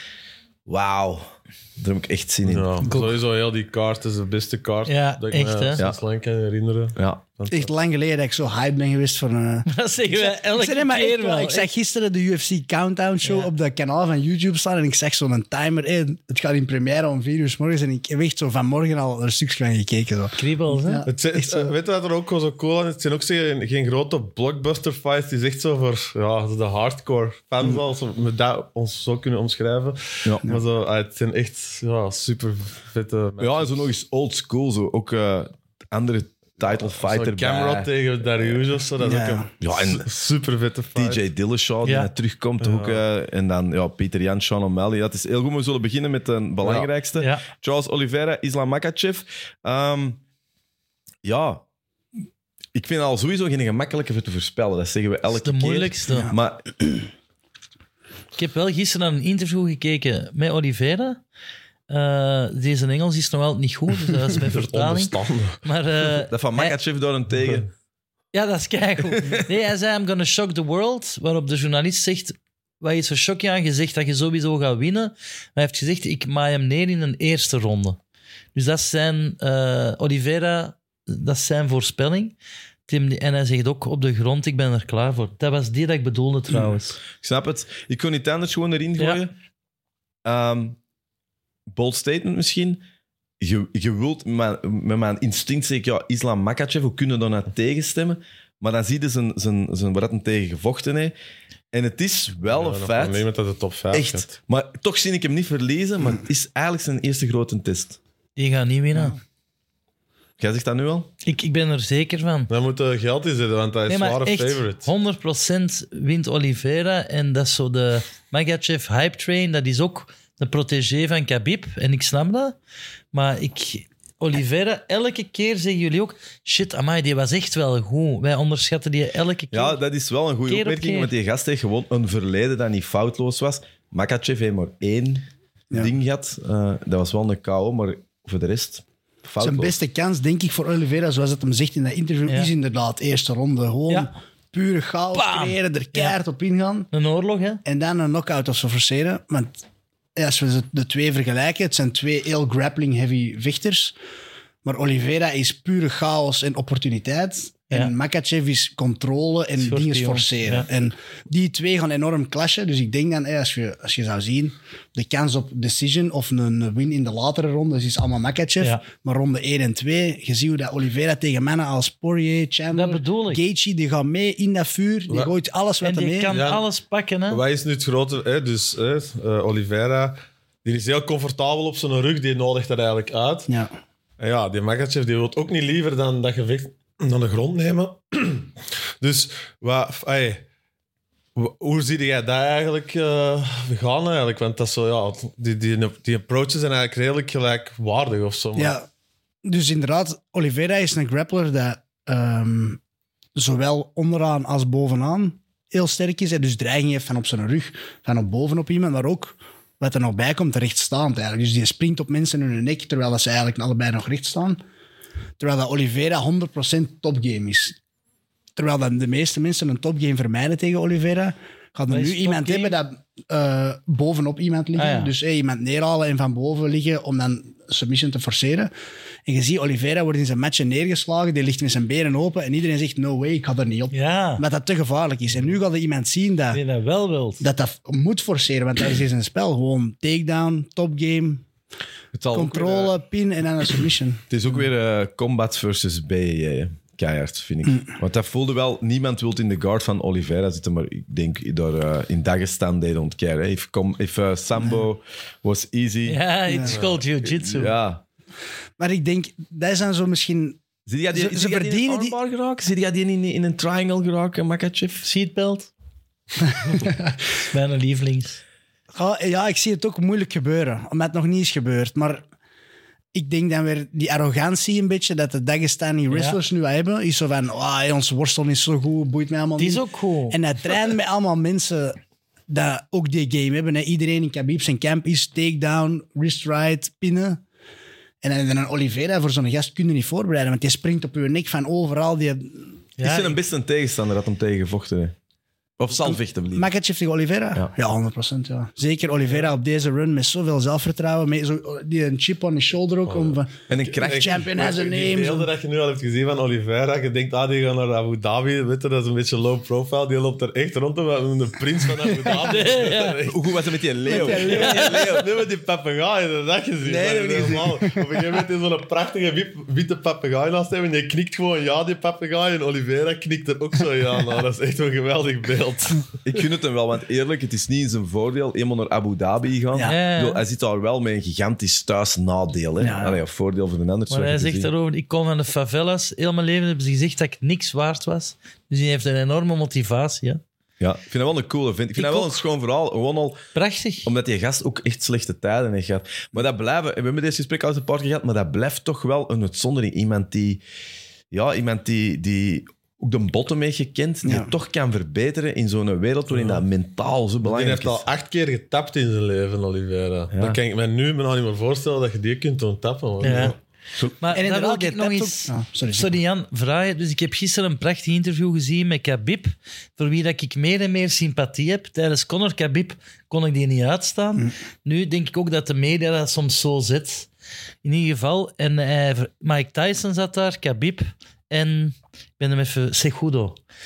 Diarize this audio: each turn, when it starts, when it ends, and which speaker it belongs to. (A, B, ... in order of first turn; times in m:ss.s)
0:00.7-0:02.8 A
0:02.4-0:07.7 B
0:02.9-0:03.2 C
0:04.9-0:05.8 C
0:07.0-0:07.2 A
0:07.5-0:21.7 D
0:09.7-0:11.7 C
0:13.2-0:13.5 C
0:20.4-0:21.0 C
0:21.1-0:33.9 B
0:33.4-0:37.9 A
0:36.8-0:41.2 B
0:39.0-0:39.5 D
0:39.6-0:40.1 A
0:41.0-0:50.2 A
0:41.8-0:42.1 C
0:42.6-0:43.0 B
0:46.6-0:46.9 B
0:47.2-0:47.5 C
0:51.2-0:51.6 A
0:52.7-0:57.0 A
0:55.3-0:56.3 C
0:58.4-1:01.2 C
1:01.9-1:06.8 C
1:04.3-1:05.6 B
1:06.3-1:07.7 A
1:08.3-1:18.0 C
1:18.6-1:22.4 C
1:22.9-1:27.0 C
1:27.2-1:29.3 A
1:30.2-1:30.8 A
1:31.7-1:32.8 A
1:33.4-1:41.1 A
1:41.7-1:43.2 A
1:42.5-1:44.3 B
1:43.9-1:48.0 A
1:48.4-1:49.2 C
1:50.4-1:51.1 A
1:51.2-1:52.5 C
1:52.5-1:54.9 B
1:53.9-2:02.6 C
2:03.1-2:09.8 C
2:09.5-2:19.8 A
2:10.5-2:11.1 C
2:19.4-2:26.9 D
2:25.1-2:26.2 C
2:26.9-2:27.6 C
2:27.6-2:29.6 D
2:30.2-2:34.0 D
2:34.6-2:56.3 D
2:39.6-2:40.7 C
2:52.7-2:53.4 C
2:55.8-2:57.4 C
2:56.3-2:56.6 B
2:57.3-3:03.5 B
3:04.2-3:10.4 B
3:11.4-3:18.8 B
3:18.6-3:18.9 D
3:19.4-3:22.8 D
3:23.4-3:34.6 D
3:35.4-3:37.8 D
3:38.6-3:48.7 D
3:41.9-3:42.8 C
3:44.8-3:45.1 C
3:49.3-3:56.6 D
3:53.9-3:54.4 C
3:56.5-3:57.4 C
3:57.4-4:01.4 D
4:02.1-4:02.9 A
4:02.3-4:04.2 D
4:04.3-4:16.2 A
4:14.6-4:14.8 D
4:16.1-4:17.7 C
4:16.5-4:16.7 D
4:17.2-4:18.0 A
4:18.8-4:20.6 D
4:20.9-4:25.1 A
4:21.1-4:22.2 D
4:25.0-4:25.7 C
4:27.4-4:28.4 C
4:28.9-4:32.2 D
4:33.1-4:42.0 D
4:36.1-4:36.4 C
4:39.6-4:40.4 C
4:42.5-4:47.4 D
4:48.2-4:52.7 D
4:53.0-4:53.4 C
4:53.0-4:55.2 A
4:55.8-4:56.7 A
4:56.0-5:05.5 D
5:03.1-5:13.6 B
5:03.7-5:04.4 A
5:12.3-5:13.2 C
5:13.2-5:15.3 A
5:14.1-5:15.0 D
5:14.2-5:26.1 B
5:14.5-5:15.1 C
5:16.8-5:17.9 A
5:26.2-5:34.7 A
5:29.8-5:30.4 C
5:32.8-5:33.2 D
5:34.1-5:40.4 C
5:40.8-5:43.4 A
5:42.0-5:42.4 C
5:43.5-5:44.1 C
5:44.0-5:50.6 A
5:51.3-5:58.1 A
5:54.2-5:54.5 D
5:57.4-6:03.6 B
6:00.3-6:00.6 A
6:03.2-6:03.6 C
6:04.2-6:17.3 C
6:04.3-6:06.2 D
6:17.8-6:23.6 C